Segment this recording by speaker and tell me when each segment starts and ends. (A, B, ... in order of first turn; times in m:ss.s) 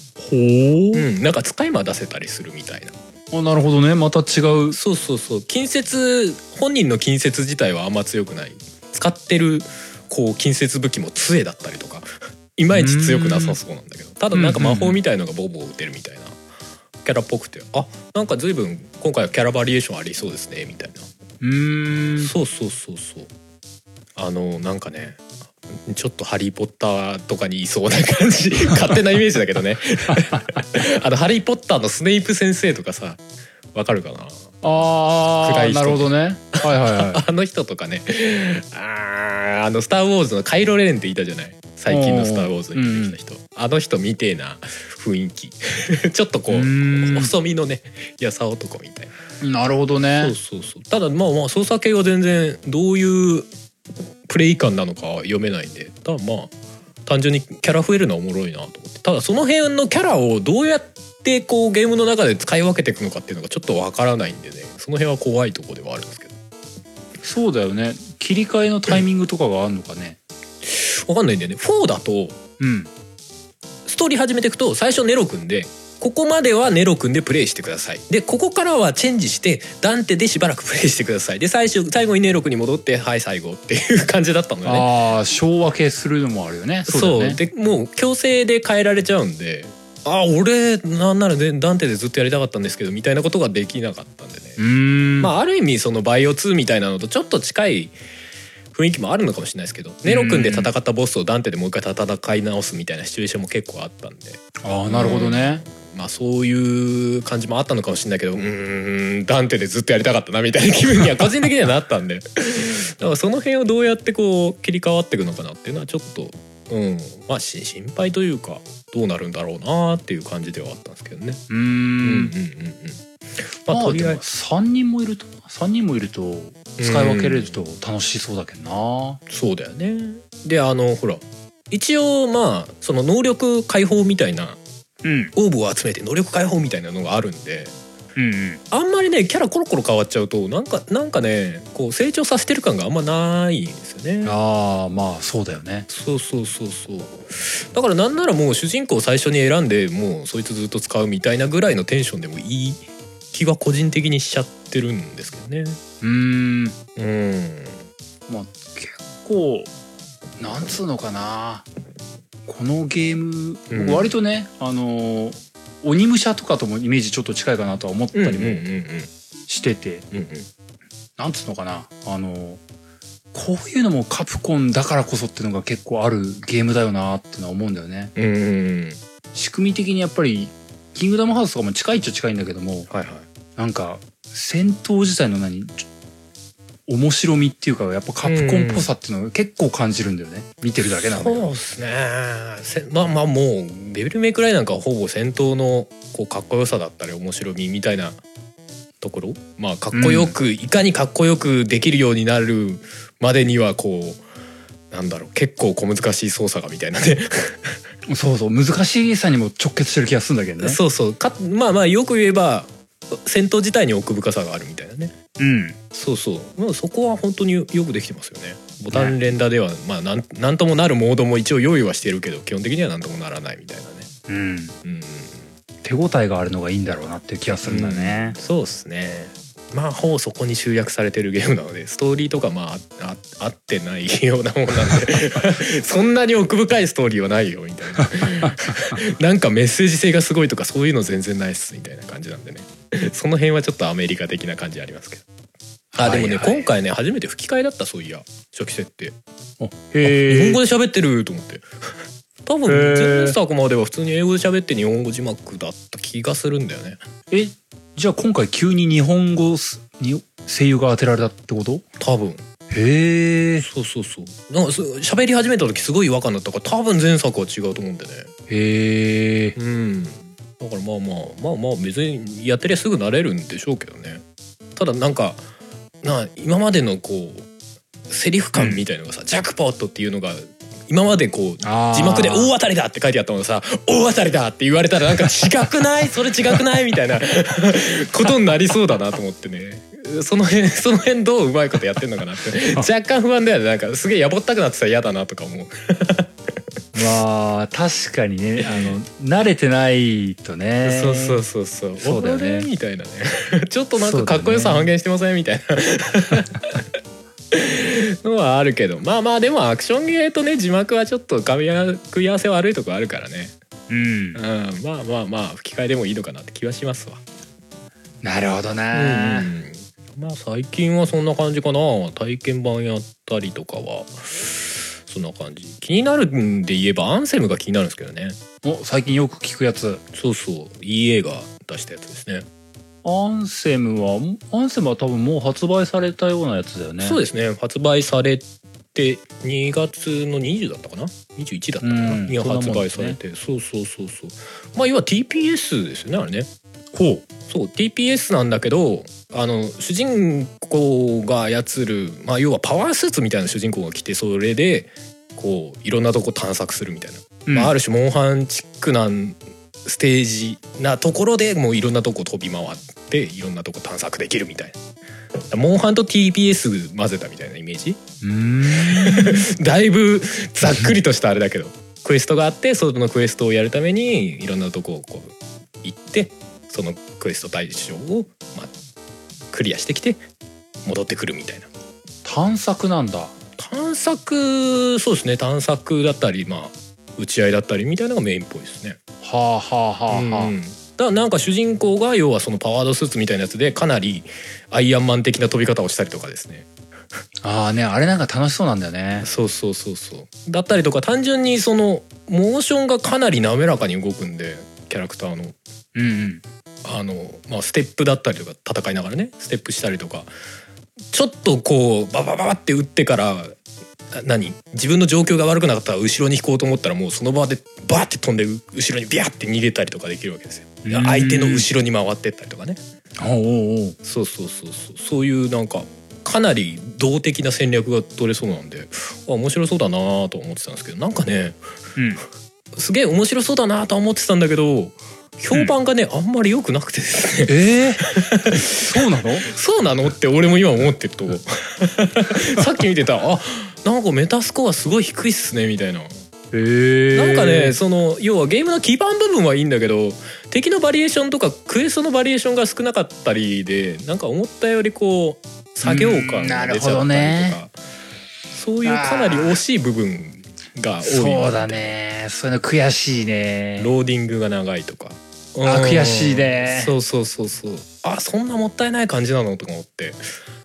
0:00.2-0:01.1 A
0:00.9-0:02.9 B
0:03.3-0:04.8 A
0:04.7-0:16.4 B
0:12.7-0:13.6 A
0:14.3-0:15.0 A
0:17.0-0:21.1 B
0:21.4-0:22.3 A
0:22.2-0:23.3 B
0:24.2-0:33.2 B
0:33.7-0:34.5 B
0:34.6-0:37.2 A
0:35.4-0:36.1 B
0:36.6-0:49.1 B
0:41.9-0:43.2 A
0:46.5-0:47.3 A
0:49.4-0:50.3 A
0:50.2-0:53.5 B
0:54.3-0:56.5 B
0:57.0-1:06.3 B
1:07.2-1:10.2 A
1:10.6-1:12.4 B
1:12.6-1:12.9 A
1:13.8-1:24.9 B
1:24.6-1:27.4 A
1:26.8-1:34.6 B
1:34.6-1:35.3 A
1:35.2-1:37.9 B
1:38.7-2:01.4 B
1:40.0-1:40.7 A
1:44.6-1:45.6 A
2:01.5-2:02.3 A
2:02.0-2:04.2 B
2:03.7-2:09.2 A
2:06.8-2:07.5 B
2:09.3-2:14.6 B
2:15.0-2:15.3 A
2:15.3-2:17.7 B
2:18.2-2:18.6 A
2:18.7-2:24.3 B
2:24.2-2:25.9 A
2:25.9-2:35.8 B
2:36.0-2:36.7 A
2:37.0-2:37.8 B
2:38.3-2:39.7 A
2:40.4-2:41.7 A
2:42.4-2:48.6 A
2:43.7-2:44.1 B
2:48.1-2:49.1 B
2:49.5-2:50.0 A
2:50.1-2:50.5 B
2:51.2-2:52.6 A
2:53.3-2:58.1 A
2:58.2-2:59.0 B
2:59.3-3:02.9 A
3:02.9-3:03.2 B
3:03.6-3:05.8 A
3:06.9-3:11.5 A
3:08.2-3:08.9 B
3:10.9-3:18.2 B
3:19.0-3:24.2 B
3:19.9-3:20.3 A
3:24.9-3:27.8 B
3:28.1-3:30.8 A
3:30.6-3:35.1 B
3:35.4-3:35.8 A
3:35.9-3:44.1 B
3:38.9-3:39.2 A
3:44.3-3:44.8 A
3:44.8-3:45.5 B
3:45.8-3:48.4 A
3:47.6-4:05.2 B
4:05.9-4:06.7 A
4:06.0-4:09.2 B
4:09.6-4:10.6 A
4:10.0-4:11.7 B
4:12.4-4:17.0 B
4:12.7-4:13.4 A
4:17.3-4:21.8 A
4:22.0-4:22.4 B
4:22.7-4:23.7 A
4:23.6-4:28.3 B
4:28.5-4:29.6 A
4:29.6-4:34.2 B
4:34.8-4:35.4 B
4:36.0-4:37.5 B
4:38.1-4:56.3 B
4:38.5-4:38.8 A
4:41.6-4:42.5 A
4:56.9-5:01.4 A
4:58.6-4:58.9 B
5:00.8-5:06.8 B
5:02.0-5:02.7 A
5:04.0-5:04.9 A
5:07.5-5:13.6 B
5:13.9-5:14.4 A
5:14.3-5:17.2 B
5:18.2-5:19.5 A
5:18.9-5:28.4 B
5:28.6-5:30.0 A
5:30.1-5:32.4 B
5:33.0-5:37.2 A
5:37.0-5:46.5 B
5:41.8-5:43.2 A
5:46.9-5:47.2 A
5:47.5-6:04.8 B
5:57.4-5:57.7 A
6:05.5-6:08.0 B
6:08.2-6:09.5 A
6:08.7-6:18.7 B
6:19.5-6:20.2 B
6:20.8-6:21.7 B
6:22.2-6:23.3 A
6:23.6-6:29.0 B
6:29.2-6:30.5 A
6:30.1-6:36.7 B
6:37.4-6:39.3 A
6:39.2-6:45.6 B
6:45.9-6:46.4 A
6:46.8-6:50.3 B
6:51.1-6:53.6 B
6:54.1-7:02.8 B
7:00.8-7:01.7 A
7:03.2-7:04.0 A
7:04.0-7:11.6 B
7:12.0-7:12.2 A
7:12.7-7:26.1 B
7:17.5-7:19.5 A
7:26.5-7:27.8 A
7:27.1-7:37.7 B
7:35.8-7:37.6 A
7:38.5-7:41.9 B
7:38.8-7:39.6 A
7:41.0-7:43.9 A
7:43.8-7:50.2 B
7:45.6-7:46.9 A